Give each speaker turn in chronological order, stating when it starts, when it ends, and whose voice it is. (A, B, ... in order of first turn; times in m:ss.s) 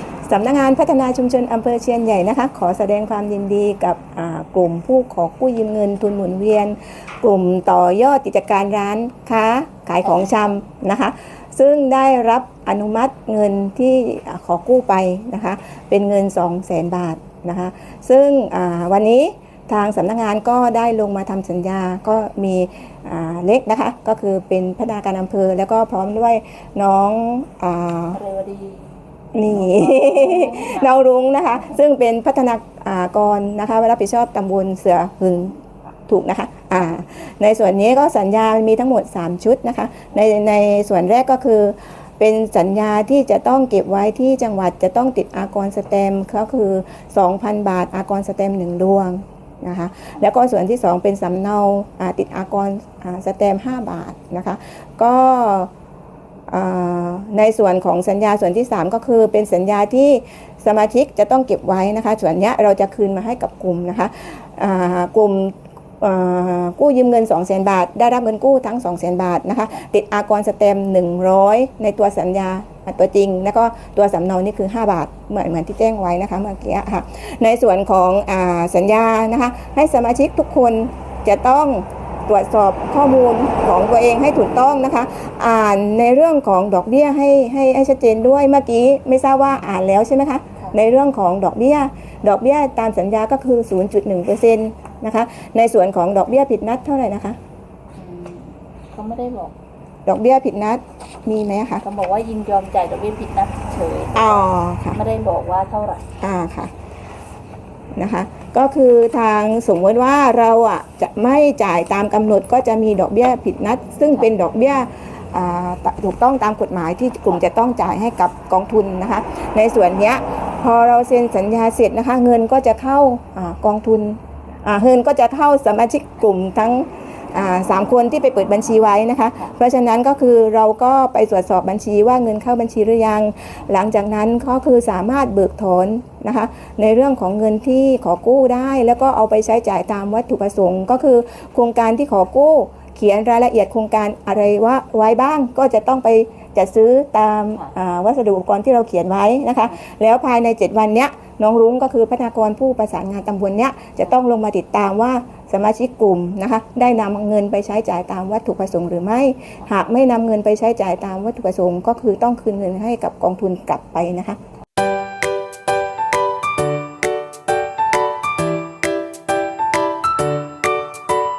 0:00.2-0:28.2 A
0:28.2-0:28.9 B
0:29.3-0:55.7 A
0:29.5-0:30.9 B
0:56.5-1:37.4 A
1:38.0-1:39.6 B
1:40.1-1:41.9 A
1:41.8-1:46.1 B
1:44.2-1:45.0 A
1:46.2-1:46.7 A
1:48.0-2:44.4 A